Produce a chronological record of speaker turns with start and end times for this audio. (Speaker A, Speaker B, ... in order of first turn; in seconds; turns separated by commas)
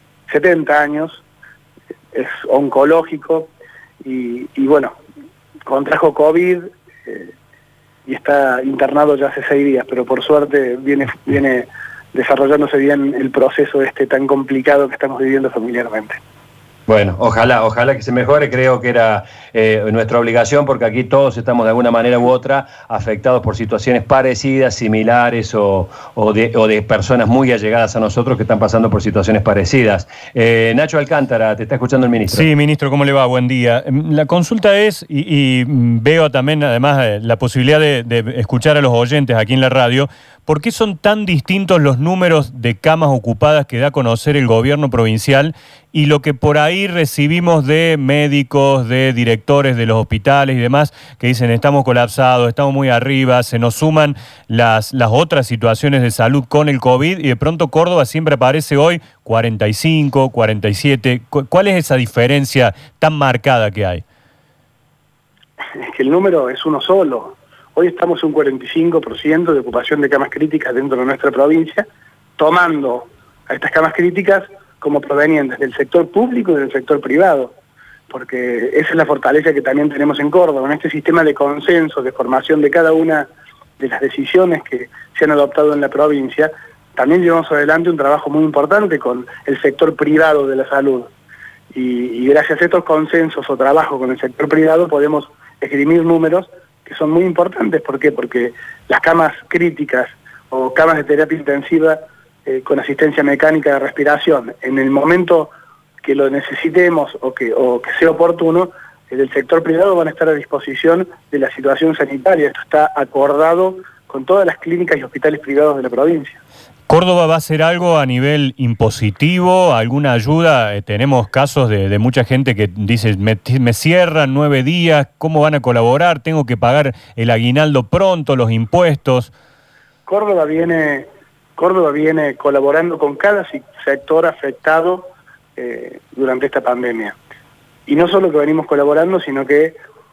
Speaker A: 0.3-1.2, Speaker A: 2.1-3.5, Speaker A: 4.0-5.0, Speaker A: 5.7-7.3, Speaker A: 8.1-16.2, Speaker B: 16.9-32.5, Speaker C: 32.3-64.0, Speaker A: 65.8-77.5, Speaker A: 78.1-91.1, Speaker A: 91.7-105.5, Speaker A: 106.0-116.4, Speaker C: 116.9-129.3, Speaker A: 130.1-137.2, Speaker A: 137.9-139.8